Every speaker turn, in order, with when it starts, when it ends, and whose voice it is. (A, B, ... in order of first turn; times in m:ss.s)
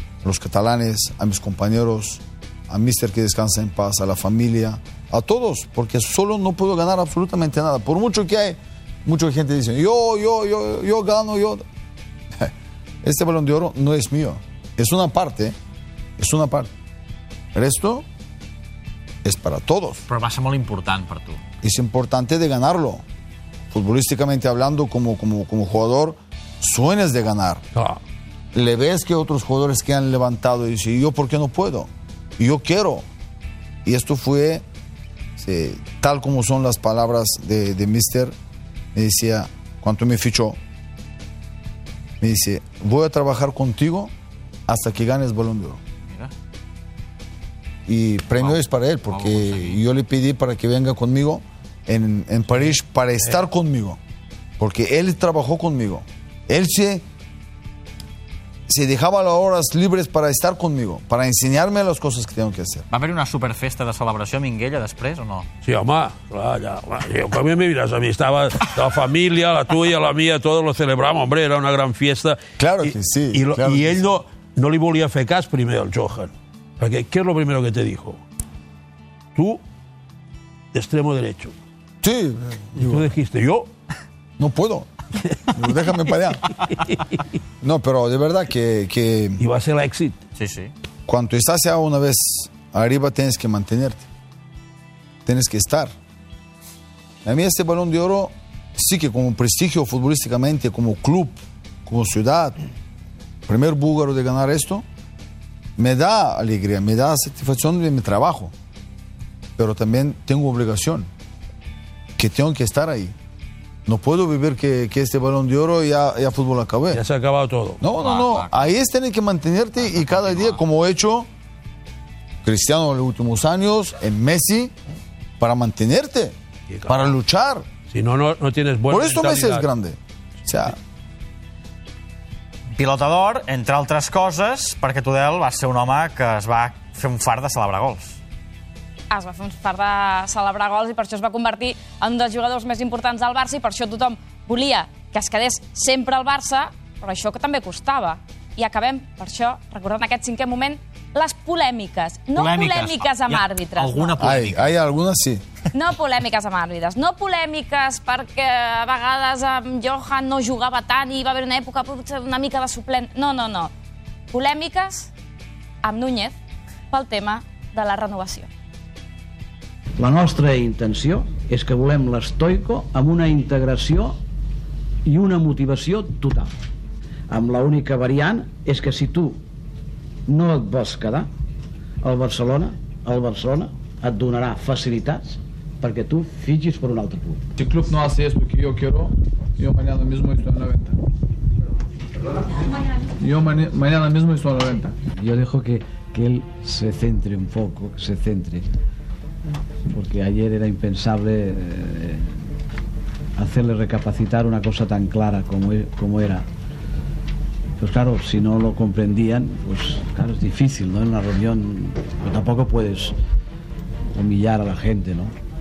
0:00.2-0:11.6 A
0:13.0-0:15.6 A
0:16.2-0:16.7 A
0:17.5-0:18.0 A
0:19.2-0:20.0 A
0:20.1-0:21.4 B
0:21.6-0:23.0 A
0:23.7-0:27.6 A
0:28.5-0:33.0 A
0:33.8-0:34.6 A
0:35.4-0:38.3 A
0:38.9-0:40.6 A
0:42.2-0:44.1 A
0:44.7-0:45.8 A
0:47.9-0:54.0 A
0:48.4-0:49.8 B
0:54.6-0:57.0 A
0:58.7-1:02.9 A
1:02.9-1:05.5 B
1:05.6-1:18.2 C
1:12.6-1:14.0 A
1:19.4-1:19.6 C
1:20.7-1:21.5 C
1:22.0-1:23.1 A
1:22.8-1:23.7 C
1:24.4-1:24.9 A
1:25.3-1:25.6 C
1:25.5-1:26.5 A
1:27.6-1:29.4 A
1:29.4-1:30.2 C
1:30.4-1:30.7 B
1:31.1-1:34.1 A
1:35.2-1:35.9 A
1:37.2-1:42.6 A
1:43.5-1:44.8 A
1:45.8-1:48.5 A
1:49.6-1:51.1 A
1:52.2-1:53.2 A
1:53.9-1:57.0 A
1:56.9-1:57.8 C
1:57.8-2:01.3 A
1:58.0-1:58.7 B
2:00.0-2:00.6 B
2:02.4-2:04.7 A
2:05.4-2:06.4 A
2:06.7-2:07.0 C
2:06.9-2:07.6 A
2:07.9-2:09.7 C
2:08.9-2:10.8 A
2:12.8-2:18.2 B
2:19.1-2:34.2 D
2:32.4-2:34.7 B
2:34.2-2:35.4 A
2:35.7-2:43.7 D
2:44.3-2:45.1 D
2:45.8-2:46.4 D
2:46.9-2:48.5 D
2:50.0-2:54.2 E
2:55.1-2:56.5 E
2:57.3-2:59.4 E
3:00.3-3:01.3 E
3:02.0-3:07.4 E
3:07.6-3:10.9 F
3:13.2-3:14.9 F
3:15.0-3:18.7 E
3:19.9-3:22.4 E
3:23.4-3:26.5 E
3:27.8-3:33.2 E
3:34.1-3:35.3 E